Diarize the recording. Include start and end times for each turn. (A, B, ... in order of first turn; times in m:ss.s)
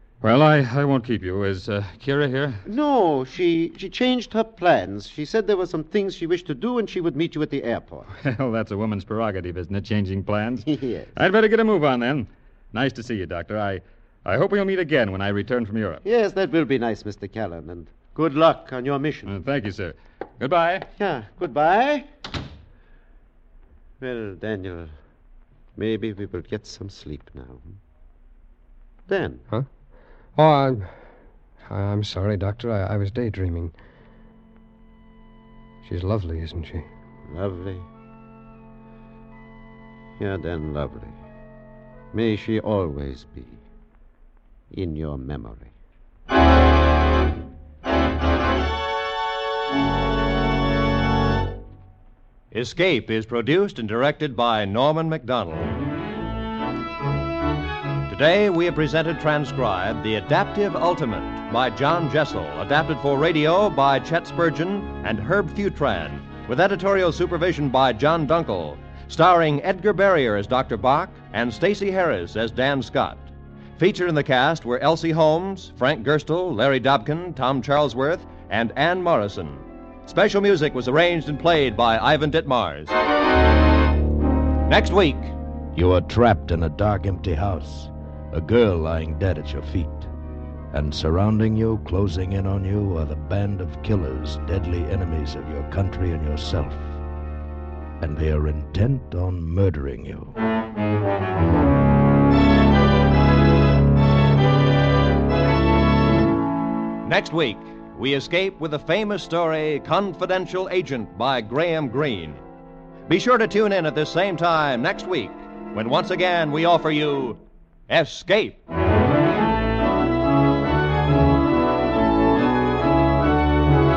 0:00.2-0:02.6 A
0:02.7-0:08.1 B
0:08.2-0:16.0 A
0:10.7-0:11.1 B
0:16.0-0:19.3 B
0:19.3-0:20.9 A
0:21.0-0:22.1 B
0:24.0-0:24.9 B
0:25.8-0:27.6 B
0:29.1-0:29.4 B
0:30.4-0:31.0 C
0:31.6-0:33.7 C
0:35.8-0:36.9 C
0:37.3-0:37.9 B
0:40.2-0:41.2 B
0:42.1-0:43.6 B
0:44.7-0:45.7 B
0:52.5-0:55.7 D
0:58.1-1:23.0 D
1:24.7-1:25.3 D
1:25.8-1:30.1 E
1:30.7-1:37.0 E
1:38.0-1:40.4 E
1:47.0-1:52.4 D
1:53.1-1:58.6 D